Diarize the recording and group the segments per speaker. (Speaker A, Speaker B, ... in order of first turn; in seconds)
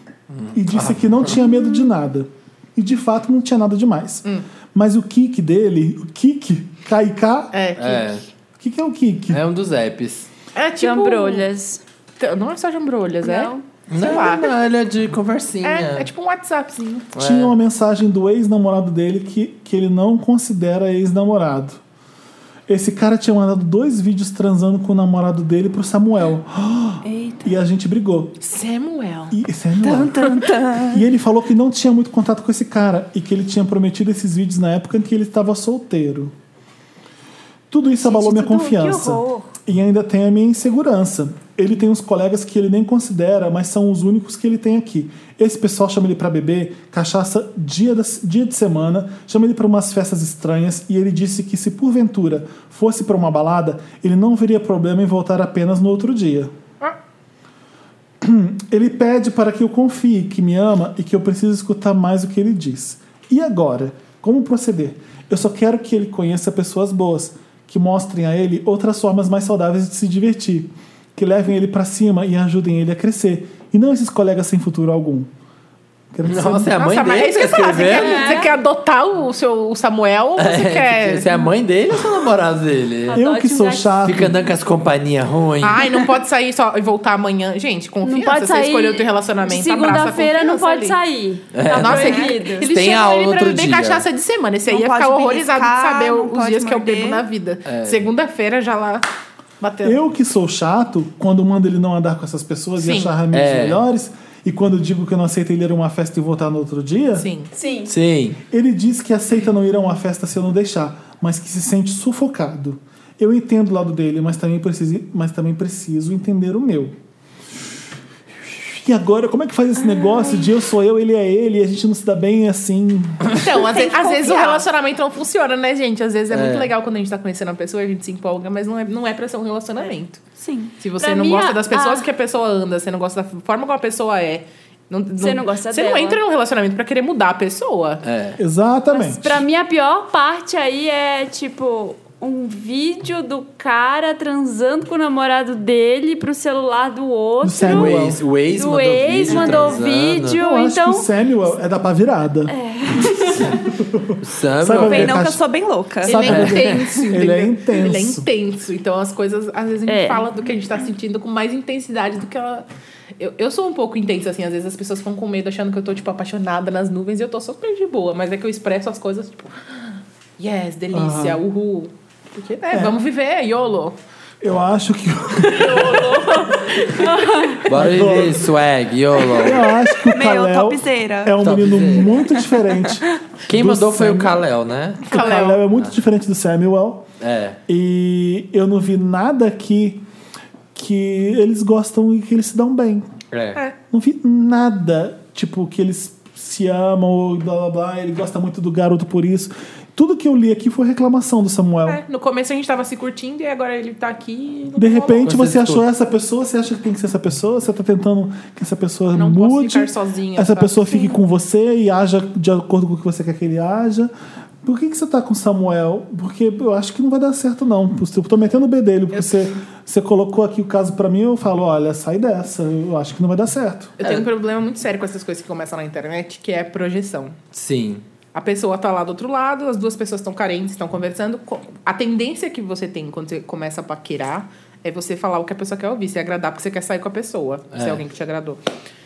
Speaker A: 0.3-1.4, 7.8-8.2, 9.3-10.3, 13.9-16.1, 17.1-17.5, 76.2-78.3, 80.4-83.2, 84.0-85.8, 91.5-94.0, 97.7-98.0, 103.3-103.8, 107.9-108.4, 126.3-126.7, 138.0-138.4, 147.6-150.4, 154.2-155.2, 156.2-156.8, 177.7-179.7, 181.4-182.3, 183.4-185.2, 187.2-187.6, 193.3-193.6, 205.2-205.8, 227.5-228.0, 237.7-238.0
Speaker B: 0.5-7.5, 8.6-9.4, 17.1-21.8, 22.7-28.4, 29.3-36.3, 37.7-56.5, 58.2-75.3, 76.1-76.8, 83.1-84.4, 99.8-107.3, 108.5-116.9, 118.5-123.4, 138.4-139.4, 147.4-148.2, 150.3-152.5, 153.3-155.4, 156.0-158.2, 170.9-171.4, 172.7-173.0, 174.4-176.2, 177.7-178.5, 179.4-184.4, 185.0-187.1, 187.7-190.0, 190.7-193.1, 193.9-202.0, 204.8-214.1, 214.6-223.9
Speaker C: 7.5-8.2, 10.5-11.5, 12.2-14.5, 15.6-17.1, 28.4-29.4, 76.7-81.5, 85.6-91.0, 91.7-99.0, 99.6-100.0, 102.8-103.1, 107.2-107.5, 123.3-130.2, 130.8-138.0, 156.0-162.7, 163.2-174.0, 175.6-176.0, 176.8-177.1, 185.1-185.7, 201.8-205.3, 209.1-210.8, 219.1-219.4, 224.0-227.3, 228.3-238.6
Speaker D: 10.8-11.8, 13.2-13.6, 38.0-39.5, 77.8-78.5, 83.1-84.0, 88.0-92.7, 107.5-107.9, 131.0-132.1, 135.2-136.2, 138.9-151.1, 152.5-153.7, 159.9-160.2, 175.5-177.6
Speaker E: 27.0-27.5, 29.8-31.0, 94.7-97.2, 123.5-124.7, 130.4-130.7, 154.7-156.3, 180.0-181.4